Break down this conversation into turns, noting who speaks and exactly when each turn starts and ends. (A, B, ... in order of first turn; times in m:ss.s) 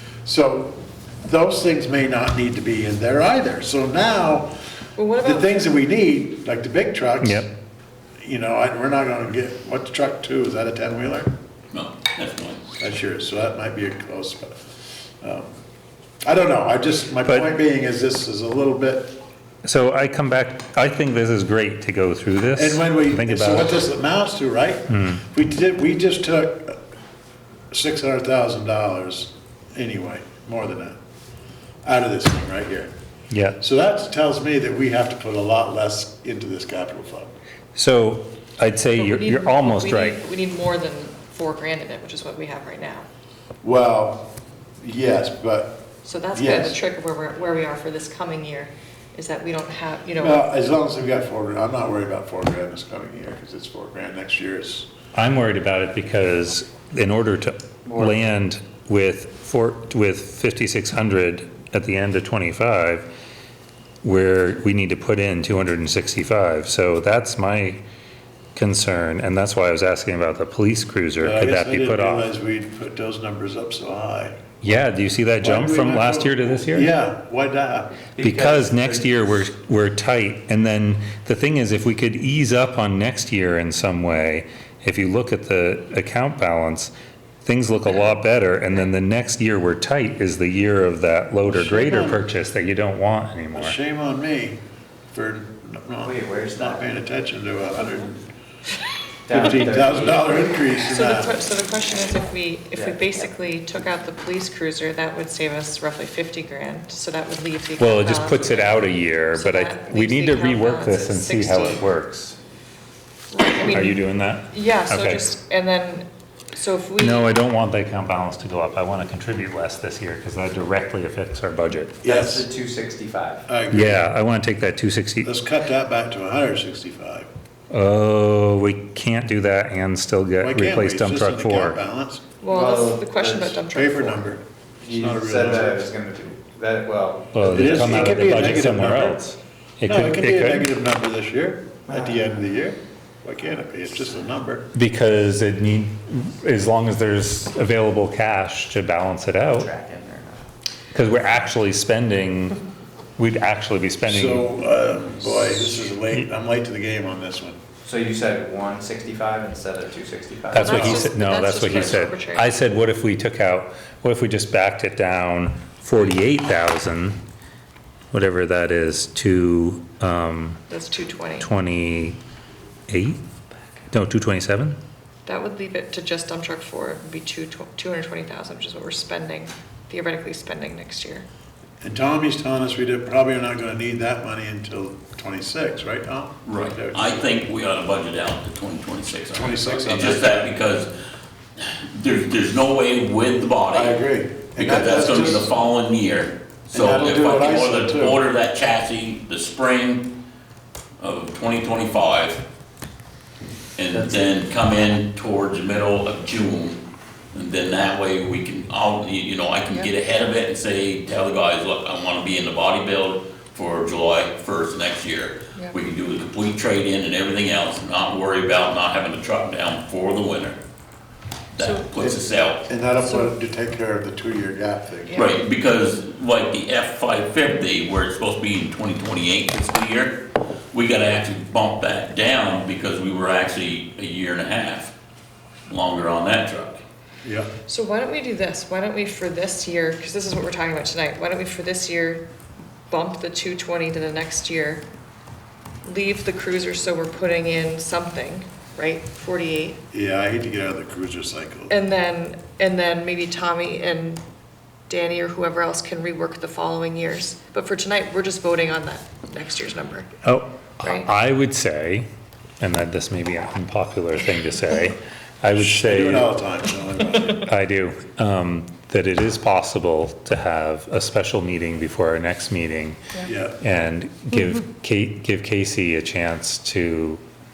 0:00.2-0:04.5 A
0:05.0-0:05.6 B
0:05.2-0:07.5 A
0:07.2-0:07.5 C
0:08.2-0:11.3 A
0:11.7-0:12.6 D
0:12.8-0:14.6 A
0:15.2-0:15.5 A
0:16.2-0:19.2 A
0:17.2-0:17.5 C
0:19.6-0:23.8 C
0:22.6-0:26.8 A
0:24.9-0:25.2 C
0:27.7-0:31.0 A
0:31.8-0:32.9 A
0:33.3-0:33.6 C
0:33.6-0:37.3 A
0:37.8-0:40.2 C
0:38.9-0:43.0 B
0:43.6-0:44.3 A
0:44.8-0:45.8 A
0:46.0-0:50.4 B
0:46.3-0:46.8 A
0:50.2-0:54.9 A
0:55.1-1:03.1 C
0:57.9-0:58.2 E
1:04.0-1:07.8 C
1:08.6-1:12.3 C
1:11.2-1:14.4 A
1:14.6-1:16.9 C
1:15.4-1:18.0 A
1:18.1-1:19.1 E
1:18.2-1:26.9 C
1:27.4-1:33.8 C
1:31.4-1:32.2 A
1:33.5-1:34.6 A
1:35.1-1:38.2 A
1:36.0-1:36.9 E
1:39.2-1:40.3 E
1:39.3-1:41.3 A
1:40.8-1:51.8 B
1:42.7-1:43.3 E
1:47.8-1:52.4 C
1:53.3-1:57.3 B
1:53.6-1:55.3 C
1:57.0-2:02.0 C
2:02.0-2:02.4 A
2:02.0-2:03.4 E
2:03.5-2:04.0 A
2:03.7-2:05.3 C
2:05.2-2:07.3 A
2:07.7-2:11.8 C
2:10.4-2:12.2 A
2:12.4-2:14.2 B
2:12.4-2:13.7 E
2:13.7-2:15.9 A
2:14.8-2:18.6 E
2:17.3-2:20.7 C
2:17.5-2:19.2 A
2:19.8-2:24.6 A
2:21.9-2:22.3 E
2:24.7-2:29.7 C
2:29.6-2:30.4 E
2:30.9-2:32.6 C
2:33.2-2:34.5 C
2:34.0-2:37.6 A
2:35.5-2:36.2 C
2:37.8-2:41.1 E
2:40.5-2:47.2 C
2:40.5-2:42.5 B
2:48.1-2:50.6 C
2:50.7-2:51.5 B
2:51.4-2:52.2 C
2:52.9-2:53.2 C
2:53.9-2:54.8 C
2:55.2-3:01.2 B
3:01.8-3:07.1 A
3:06.4-3:10.9 D
3:09.3-3:10.6 A
3:11.6-3:14.0 D
3:13.7-3:15.5 A
3:14.6-3:20.1 D
3:16.7-3:18.2 A
3:21.0-3:22.4 D
3:23.8-3:26.8 D
3:27.3-3:40.6 D
3:41.6-3:42.6 D
3:41.6-3:41.9 B
3:42.0-3:45.3 A
3:43.0-3:43.3 B
3:45.1-3:54.9 D
3:55.7-3:56.8 D
3:57.2-3:57.5 A
3:57.7-4:02.2 B
4:02.9-4:04.8 B
4:05.8-4:09.8 B
4:09.9-4:11.7 A
4:11.7-4:14.2 B
4:14.9-4:20.1 B
4:20.2-4:22.1 C
4:20.8-4:21.1 B
4:22.6-4:26.3 C
4:25.5-4:27.5 A
4:27.5-4:33.0 C
4:33.2-4:33.6 A
4:33.6-4:37.2 C